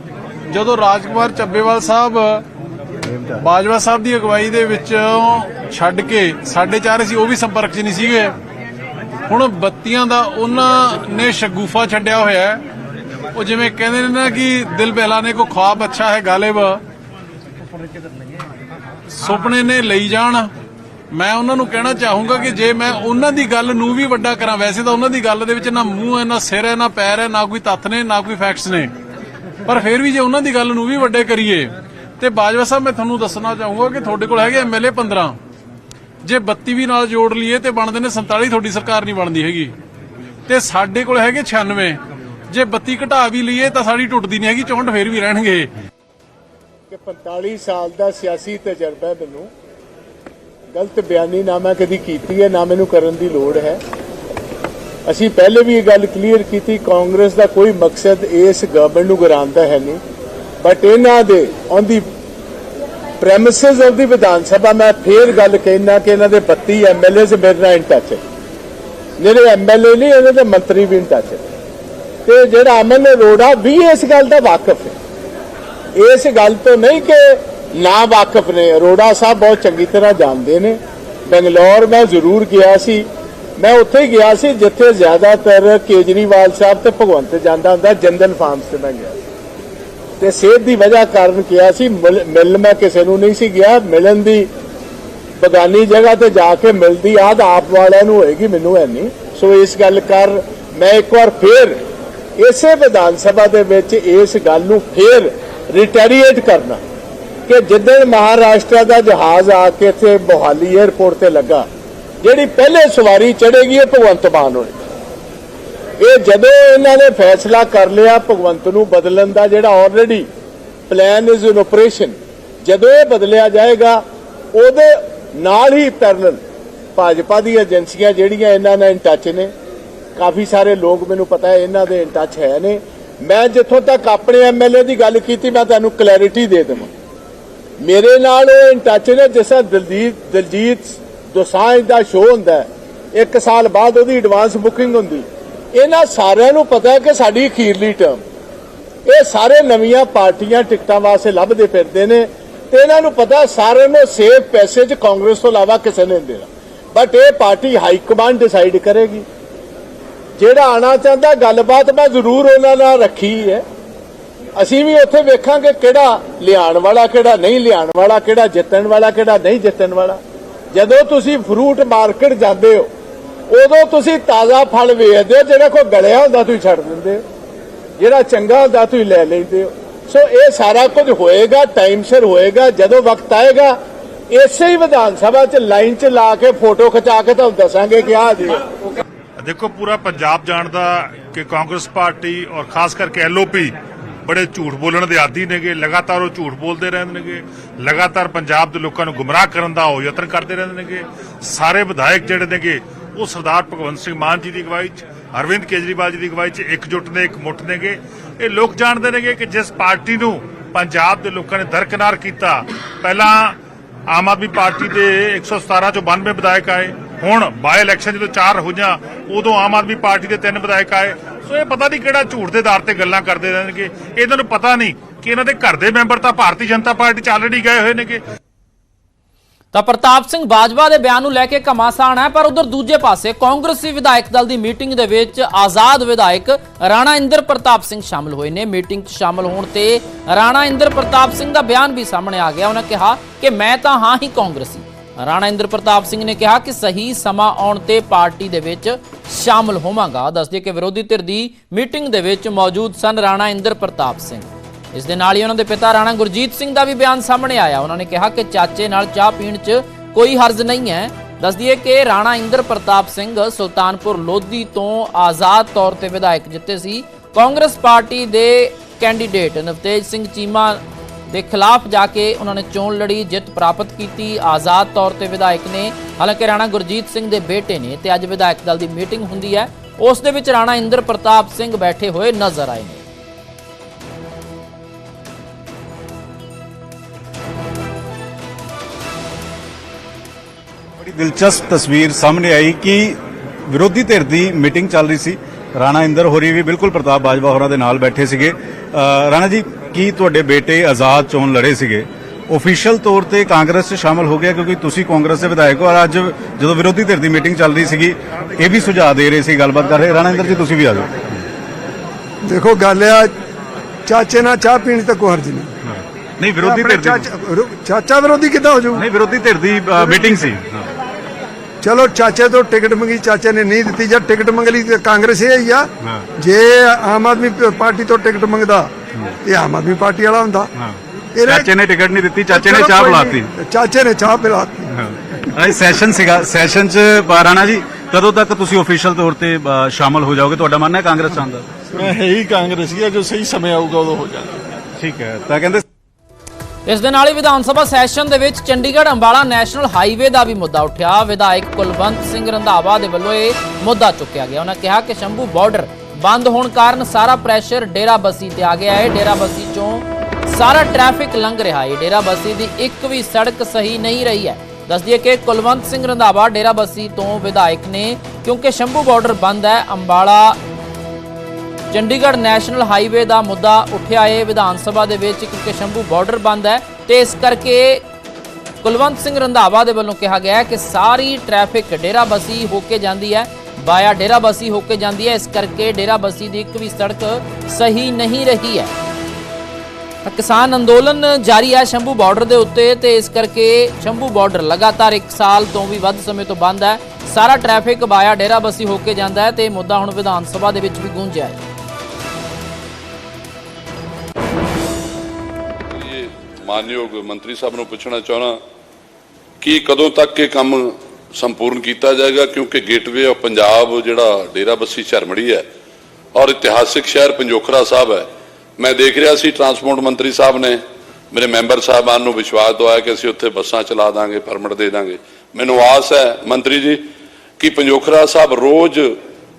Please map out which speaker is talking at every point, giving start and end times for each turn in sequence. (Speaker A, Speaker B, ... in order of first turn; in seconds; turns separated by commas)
Speaker A: 0.5-2.4, Speaker A: 3.4-8.3, Speaker A: 9.3-12.6, Speaker A: 13.3-16.8, Speaker A: 19.2-20.5, Speaker A: 21.1-28.9, Speaker A: 29.6-35.4, Speaker A: 36.2-39.7, Speaker A: 40.5-42.0, Speaker A: 42.5-45.7, Speaker B: 46.9-49.5, Speaker B: 50.7-53.8, Speaker B: 55.0-60.0, Speaker B: 60.6-62.0, Speaker B: 63.2-68.2, Speaker B: 69.2-71.5, Speaker B: 72.2-75.0, Speaker B: 76.0-89.2, Speaker B: 90.2-94.5, Speaker B: 95.4-101.8, Speaker B: 102.4-106.8, Speaker B: 107.5-111.7, Speaker B: 112.2-114.9, Speaker B: 116.0-120.3, Speaker B: 120.9-124.0, Speaker B: 124.5-126.4, Speaker B: 126.9-129.5, Speaker B: 130.2-136.9, Speaker B: 137.8-148.2, Speaker B: 149.1-159.2, Speaker B: 160.4-163.6, Speaker B: 164.6-170.2, Speaker B: 170.7-172.9, Speaker B: 173.5-177.2, Speaker B: 178.0-183.8, Speaker B: 184.3-188.7, Speaker C: 189.4-213.6, Speaker C: 214.1-228.2, Speaker D: 229.7-283.0, Speaker E: 291.0-293.2, Speaker E: 293.7-311.4, Speaker F: 312.4-313.3, Speaker F: 314.1-315.7, Speaker E: 315.8-317.2, Speaker F: 316.6-319.0, Speaker E: 318.9-320.9, Speaker F: 320.0-320.4, Speaker F: 321.8-328.9, Speaker F: 329.4-330.7, Speaker E: 330.8-333.5, Speaker F: 331.3-331.7, Speaker F: 332.5-334.9, Speaker E: 334.9-341.6, Speaker G: 341.9-344.6, Speaker E: 345.0-345.8, Speaker D: 346.9-370.6, Speaker D: 371.9-378.0, Speaker D: 378.8-388.9, Speaker D: 390.2-401.6, Speaker H: 405.9-408.6, Speaker H: 409.6-415.6, Speaker H: 416.3-418.3, Speaker H: 418.8-427.1, Speaker H: 427.6-429.2